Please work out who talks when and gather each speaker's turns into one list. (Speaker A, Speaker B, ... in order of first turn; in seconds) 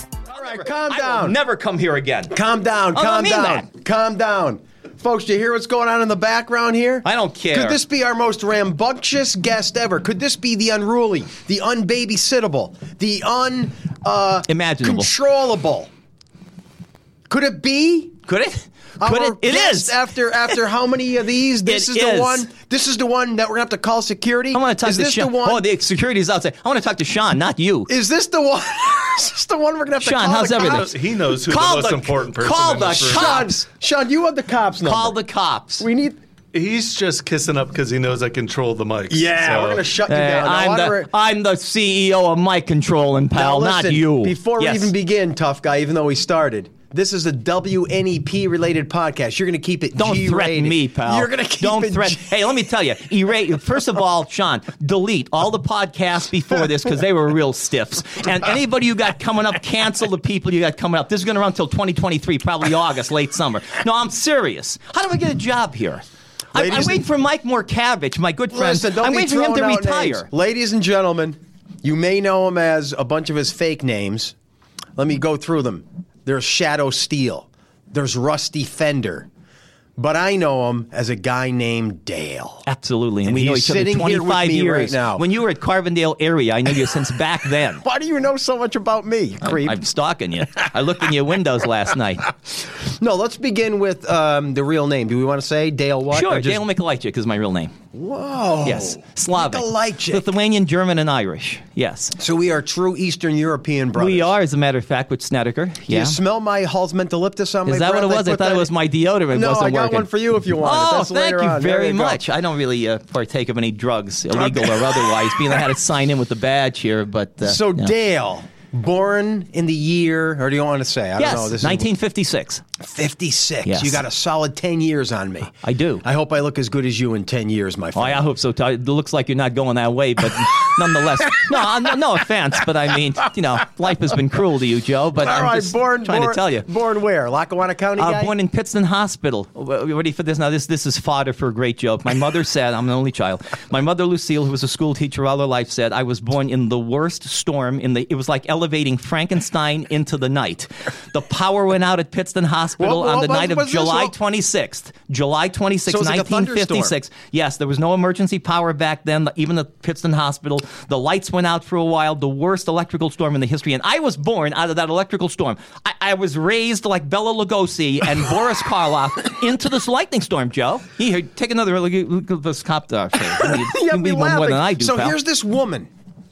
Speaker A: 0.3-1.4, 2.3-15.9, 17.3-18.2, 19.0-25.6, 27.9-30.9, 32.8-35.2, 35.8-36.2, 39.1-41.1, 43.3-52.4, 66.5-67.0, 68.5-74.3, 75.0-79.3, 80.0-82.6, 83.2-85.2, 87.8-89.8, 92.8-96.6, 97.9-100.2, 102.2-104.3, 105.9-108.7, 109.3-112.2, 114.3-115.0, 117.4-121.9, 122.8-128.3, 135.2-138.3, 152.8-154.1, 155.9-156.9, 173.3-175.9
Speaker B: 0.3-2.3, 2.9-3.7, 7.0-7.8, 14.5-15.1, 18.3-20.0, 21.6-22.5, 24.5-27.9, 30.0-30.9, 31.4-33.6, 34.8-35.8, 40.1-44.9, 50.0-70.3, 82.7-87.8, 89.4-92.3, 96.1-97.7, 98.6-102.2, 104.0-106.2, 107.7-117.9, 121.2-122.6, 123.6-124.0, 125.6-126.0, 127.9-136.7, 138.0-175.2
Speaker C: 30.5-33.5, 36.5-39.9